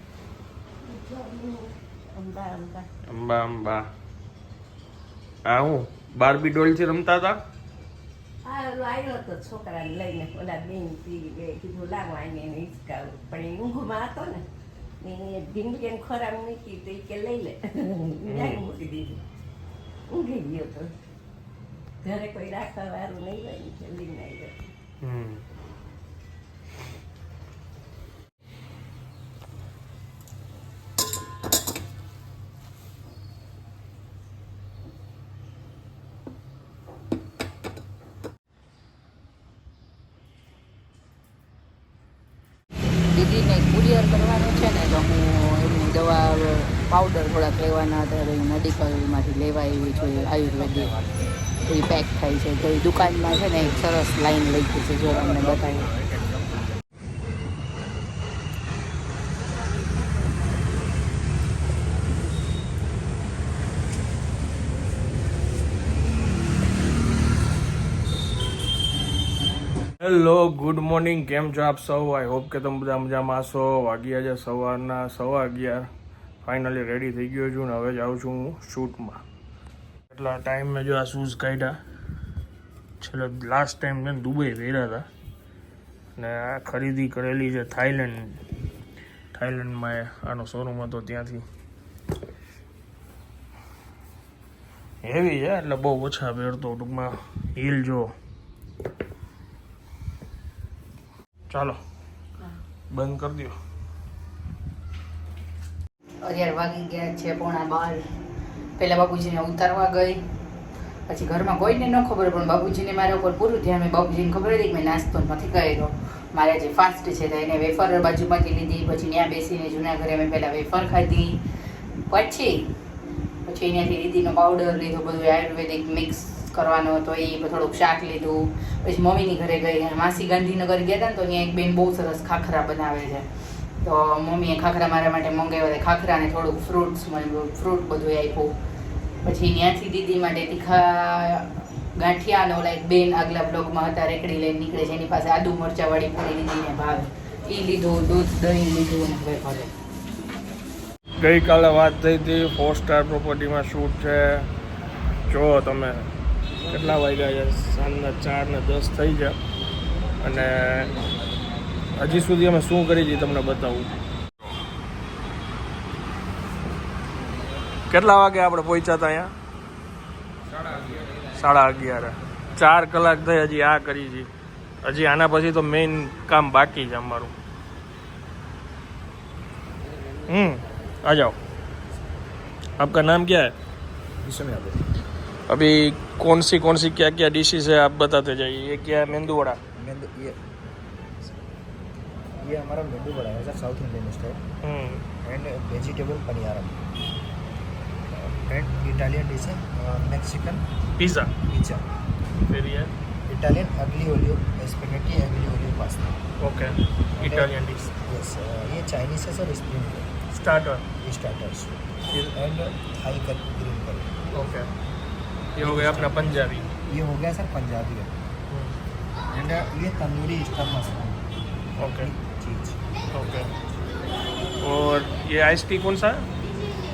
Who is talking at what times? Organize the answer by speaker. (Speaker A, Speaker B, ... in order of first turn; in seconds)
Speaker A: 0.8-2.9, 8.4-14.4, 15.0-19.2, 20.1-20.9, 22.0-24.7
Speaker B: 3.1-3.9, 5.5-7.4, 18.3-18.6, 25.0-25.4, 70.0-75.9, 76.4-79.2, 80.1-81.8, 83.0-85.1, 86.2-88.4, 89.3-91.4, 95.0-98.1, 101.5-101.8, 102.9-103.6, 151.2-154.5, 155.3-156.1, 156.7-159.4, 160.2-160.9, 162.0-163.9, 167.9-169.3, 171.3-174.3, 174.8-177.3, 180.3-181.4, 182.8-183.6, 185.5-189.6, 194.6-195.1, 201.0-201.3, 202.5-202.9, 206.4-207.9, 210.3-210.9, 214.3-214.7, 215.6-216.7, 218.5-218.8, 221.8-222.1, 223.1-223.5, 224.6-226.3
Speaker C: 43.1-50.9, 51.7-55.9, 106.2-108.0, 108.8-110.2, 111.1-121.4, 122.1-122.7, 123.5-133.3, 133.8-138.5, 139.2-149.7
Speaker D: 49.8-51.3, 55.1-56.7, 184.2-184.9, 189.8-190.4, 192.4-194.4, 195.2-196.8, 198.2-200.7, 201.5-201.8, 203.3-206.2, 207.2-210.1, 211.0-214.1, 215.6-216.3, 216.9-218.1, 219.3-221.2, 221.9-222.8